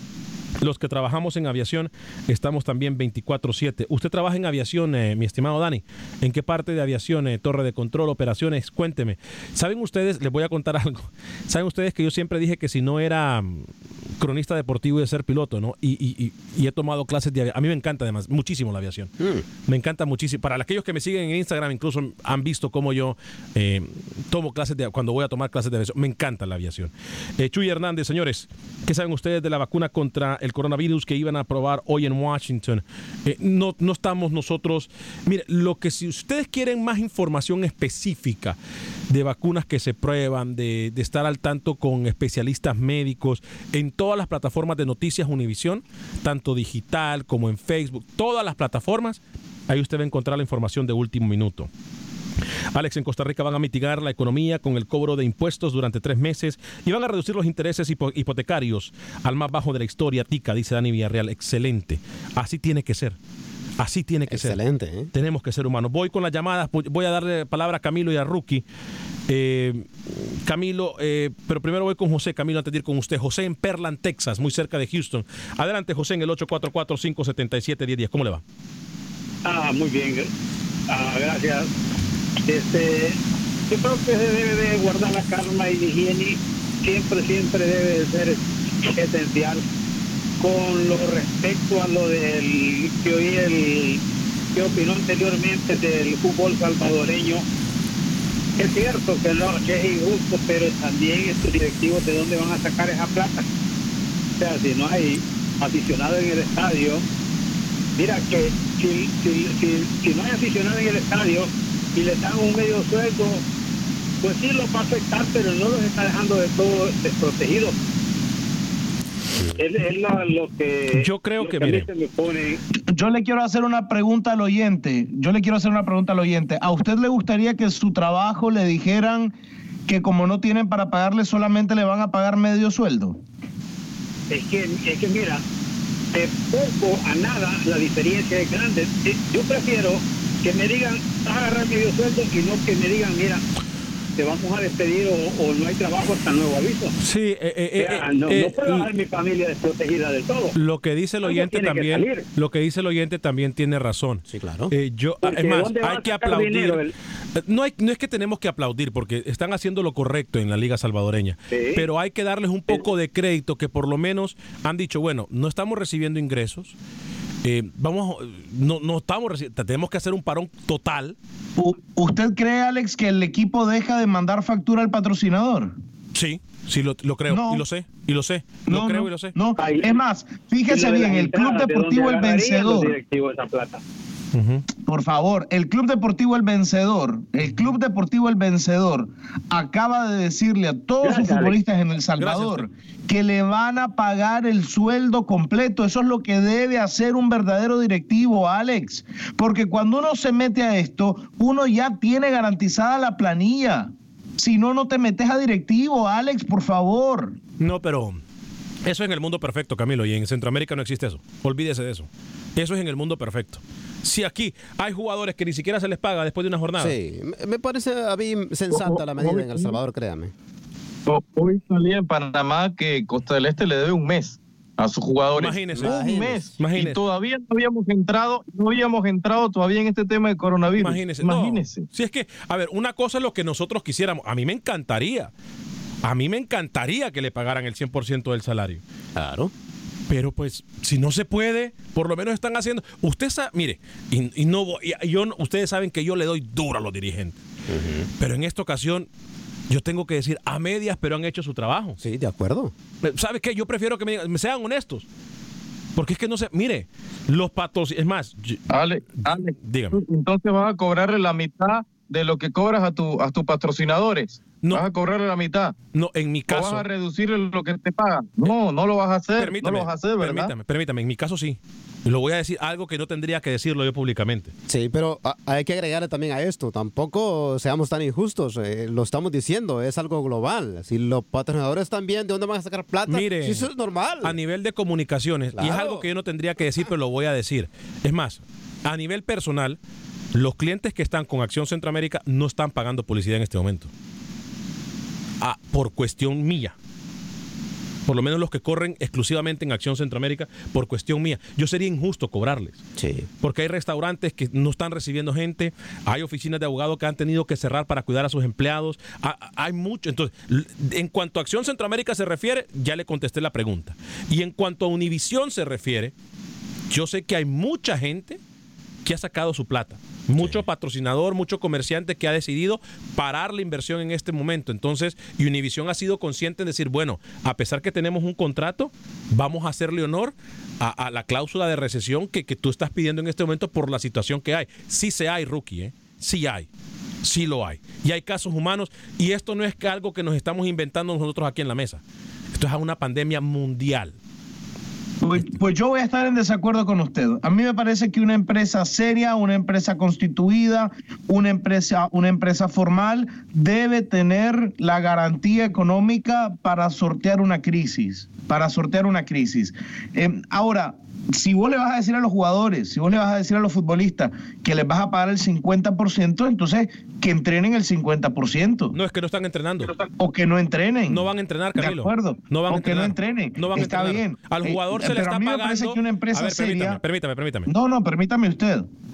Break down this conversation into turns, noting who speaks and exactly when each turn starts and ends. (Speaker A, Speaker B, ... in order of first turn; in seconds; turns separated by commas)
Speaker A: 0.6-19.1, Speaker B: 19.2-19.4, Speaker A: 19.6-38.6, Speaker A: 39.1-51.7, Speaker A: 52.7-63.2, Speaker A: 63.8-64.6, Speaker B: 64.3-65.1, Speaker A: 65.1-68.6, Speaker A: 69.3-78.4, Speaker C: 79.4-80.3, Speaker C: 80.9-81.7, Speaker C: 82.5-83.2, Speaker C: 83.7-89.6, Speaker C: 90.4-94.0, Speaker C: 94.5-97.4, Speaker C: 98.6-103.4, Speaker C: 104.4-107.0, Speaker C: 108.0-113.4, Speaker C: 114.2-117.8, Speaker C: 119.5-122.6, Speaker A: 120.9-121.9, Speaker D: 122.9-129.3, Speaker D: 129.9-133.2, Speaker C: 134.3-135.4, Speaker C: 136.1-143.4, Speaker C: 144.2-146.9, Speaker A: 147.0-148.9, Speaker C: 147.8-150.6, Speaker A: 150.5-156.8, Speaker C: 151.2-152.2, Speaker B: 154.3-154.7, Speaker C: 155.2-156.9, Speaker A: 157.3-166.7, Speaker C: 161.5-161.9, Speaker A: 167.4-171.2, Speaker D: 171.6-175.7, Speaker A: 176.1-179.3, Speaker D: 177.3-177.6, Speaker D: 178.7-182.9, Speaker C: 179.6-180.0, Speaker C: 180.7-183.8, Speaker A: 184.3-184.6, Speaker D: 184.8-207.3, Speaker C: 191.0-191.6, Speaker A: 192.2-192.7, Speaker A: 207.6-208.2, Speaker A: 208.8-216.9, Speaker B: 216.8-220.3, Speaker E: 218.7-219.7, Speaker E: 221.1-231.8, Speaker A: 225.3-227.0, Speaker B: 225.7-226.5, Speaker A: 230.8-235.3, Speaker A: 236.0-238.8, Speaker B: 239.2-239.5, Speaker A: 240.1-247.4, Speaker B: 247.7-248.1, Speaker A: 248.2-249.1, Speaker A: 249.7-252.0, Speaker B: 252.0-252.7, Speaker A: 253.0-255.1, Speaker A: 255.9-258.6, Speaker E: 258.7-265.7, Speaker A: 259.2-260.0, Speaker A: 265.9-266.8, Speaker E: 266.5-270.5, Speaker A: 269.4-274.5, Speaker B: 274.7-284.4, Speaker A: 283.1-283.7, Speaker A: 284.2-289.8, Speaker B: 285.6-286.1, Speaker A: 290.3-293.9, Speaker A: 295.4-296.7, Speaker A: 298.1-302.8, Speaker B: 303.0-303.3, Speaker A: 303.4-316.1, Speaker A: 316.9-318.4, Speaker A: 319.0-336.7, Speaker A: 337.2-342.0, Speaker A: 342.5-344.1, Speaker D: 345.2-368.9, Speaker A: 368.9-369.9, Speaker D: 370.2-377.0, Speaker A: 371.1-377.7, Speaker D: 377.7-378.9